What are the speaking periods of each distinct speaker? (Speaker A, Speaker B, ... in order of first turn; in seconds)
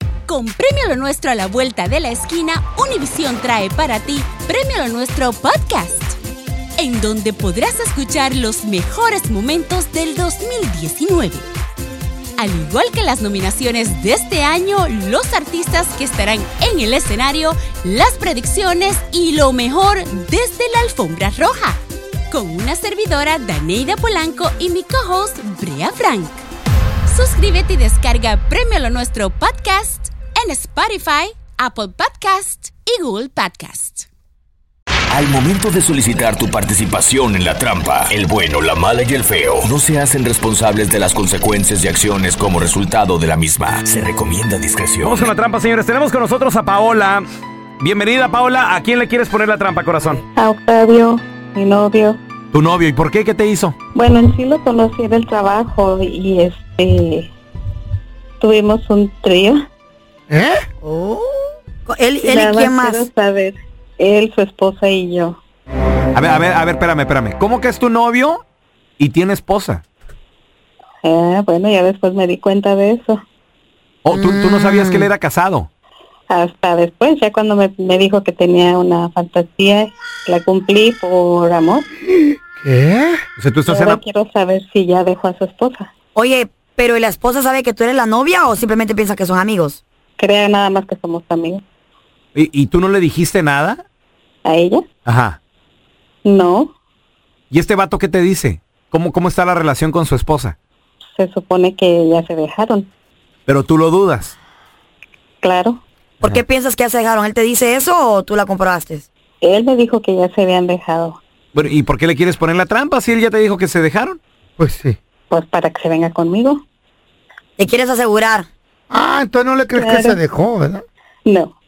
Speaker A: 0.3-6.2, 6.8-11.4, 12.4-21.8, 22.3-26.4, 27.1-34.0
Speaker B: 35.1-45.3
Speaker C: 45.0-47.2, 47.8-50.2, 52.5-53.8, 66.2-68.4, 69.0-69.8, 74.0-75.7, 83.4-84.0, 92.3-93.8, 95.1-95.4, 97.5-100.6, 103.5-104.4, 111.5-114.2
Speaker D: 50.4-52.2, 54.0-57.3, 58.4-59.6, 62.3-65.4, 71.0-73.2, 76.3-81.9, 83.7-85.9, 90.2-91.6, 94.5-94.8, 96.2-96.7, 101.2-102.9, 105.4-105.8, 109.4-111.2, 115.3-116.6, 119.8-120.2, 121.3-121.5
Speaker E: 60.3-60.7, 82.6-83.2, 114.6-115.0, 118.9-120.8
Speaker F: 60.8-61.2, 61.9-63.1, 74.1-75.1, 86.2-89.8, 106.2-109.1, 117.6-118.5